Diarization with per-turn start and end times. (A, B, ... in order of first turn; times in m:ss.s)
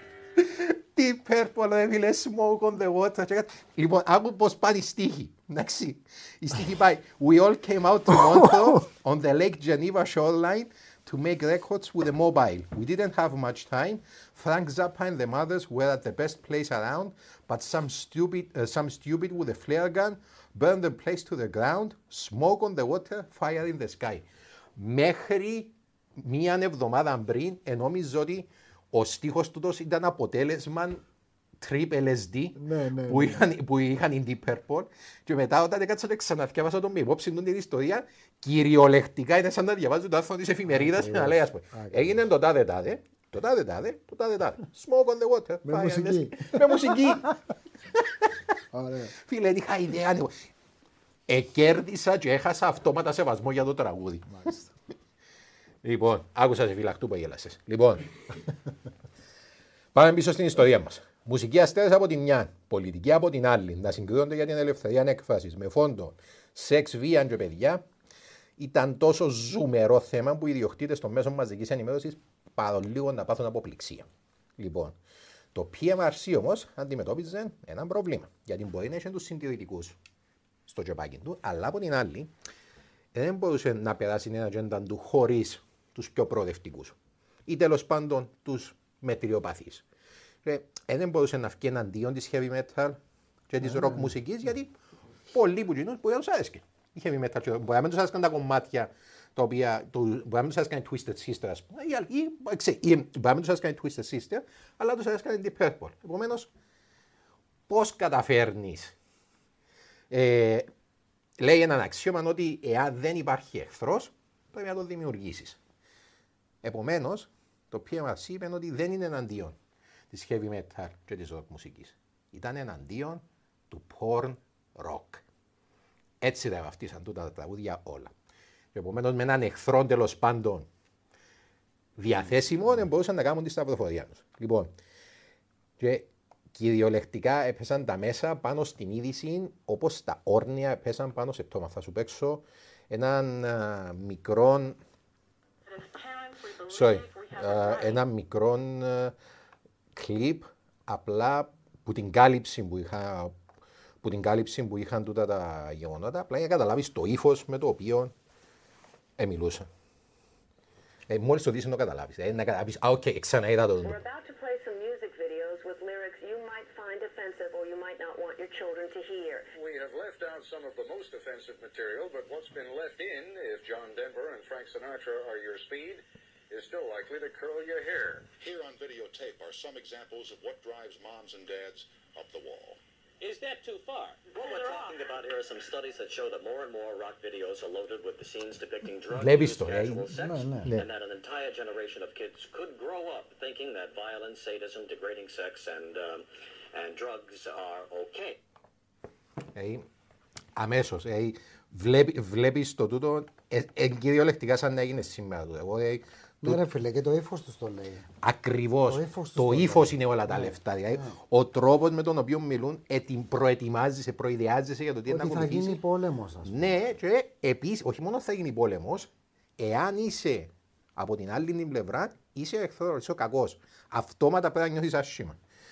0:00.4-0:31.0 A
0:31.6-0:47.3 A
0:32.6-0:33.4 B
0:40.7-0:42.2 B
0:45.6-0:47.4 B
0:47.9-0:48.3 A
0:48.7-0:49.1 B
0:49.2-0:50.4 A
0:51.3-0:54.3 A
0:54.3-0:54.7 B
0:55.8-0:58.5 A
0:59.9-1:07.8 A
1:08.6-1:15.0 A
1:15.5-1:20.0 A
1:20.7-1:22.3 A
1:23.1-1:29.8 A
1:30.4-1:34.7 A
1:33.7-1:34.1 B
1:35.3-1:46.5 A
1:47.7-1:49.0 A
1:50.1-1:50.7 A
1:51.4-1:55.6 A
1:56.6-1:59.6 A
2:00.1-2:05.2 A
2:06.2-2:08.1 A
2:08.7-2:10.7 A
2:12.0-2:14.7 A
2:15.8-2:24.8 A
2:25.7-2:28.0 C
2:26.7-2:29.1 A
2:29.9-2:33.4 A
2:34.0-2:38.1 A
2:39.2-2:39.7 A
2:41.1-2:44.0 A
2:43.8-2:49.5 D
2:49.5-2:58.3 E
2:58.4-3:02.8 F
3:03.2-3:18.4 G
3:09.1-3:10.1 A
3:10.2-3:10.7 B
3:19.6-3:19.9 A
3:20.6-3:26.6 A
3:26.4-3:28.1 B
3:28.2-3:35.8 A
3:28.9-3:31.2 B
3:35.1-3:36.7 B
3:36.4-3:45.4 A